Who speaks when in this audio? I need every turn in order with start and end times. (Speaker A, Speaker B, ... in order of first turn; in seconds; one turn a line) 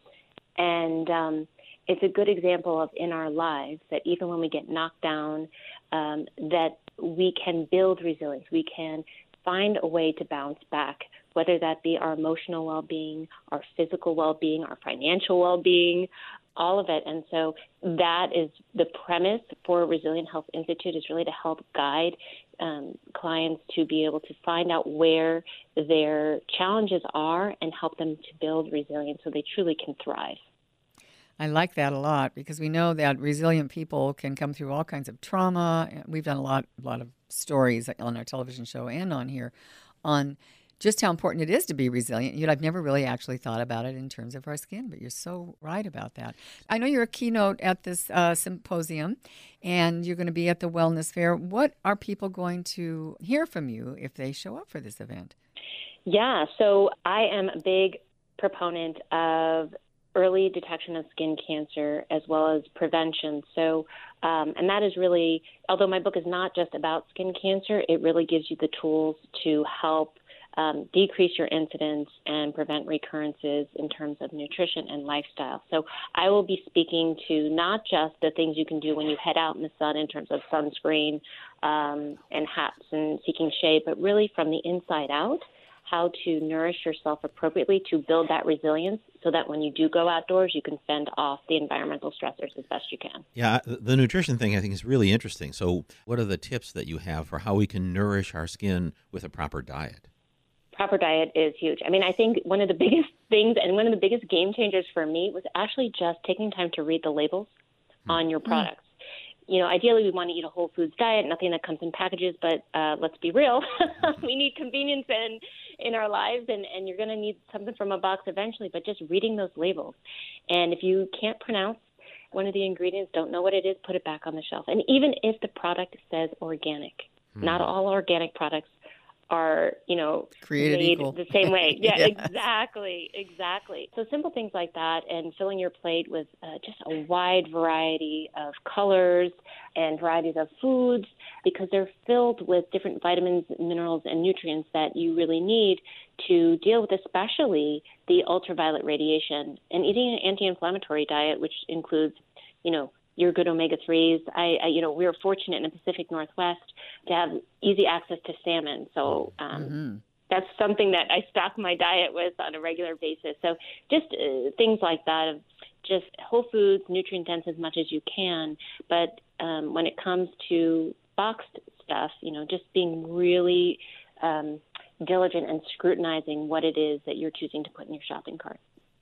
Speaker A: 0.6-30.4
Speaker B: 31.4-55.3
Speaker A: 56.1-93.2
Speaker C: 93.4-100.1
Speaker A: 100.7-107.5
Speaker A: 108.1-108.8
Speaker A: 109.5-120.0
Speaker A: 120.5-128.7
Speaker A: 129.3-159.8
Speaker B: 130.4-132.2
Speaker B: 159.5-160.0
Speaker A: 160.3-178.6